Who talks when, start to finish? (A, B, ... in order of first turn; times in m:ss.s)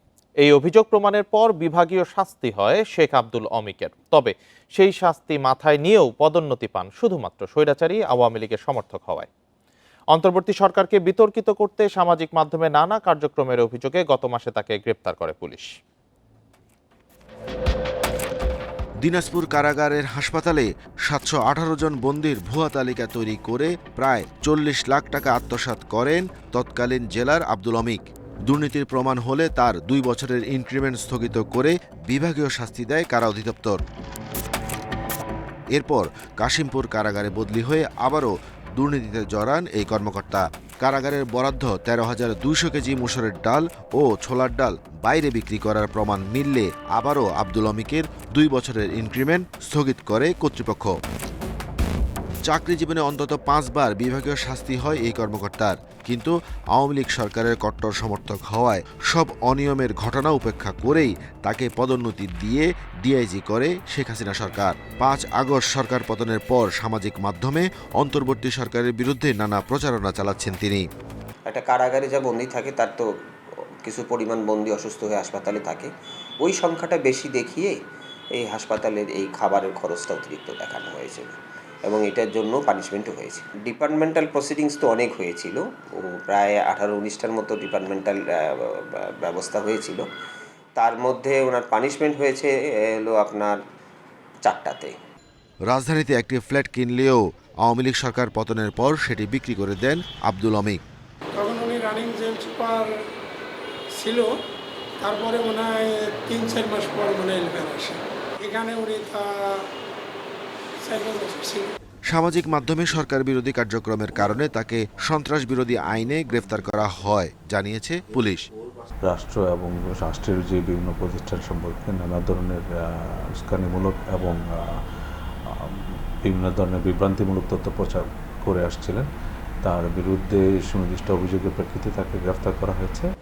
0:00.4-0:09.3 A
0:10.1-0:15.7 A
0:19.0-0:33.8 B
0:35.7-0:50.9 B
0:52.4-1:10.8 B
1:11.5-1:13.1 C
1:13.8-1:17.8 C
1:18.3-1:30.0 C
1:30.8-1:33.6 C
1:34.4-1:35.0 C
1:35.7-1:40.8 B
1:41.4-1:42.9 D
1:44.0-1:44.3 D
1:45.0-1:49.6 D
1:50.8-1:51.7 D
1:52.1-1:58.4 B
1:59.0-2:04.6 E
2:05.6-2:09.1 E
2:09.6-2:13.1 E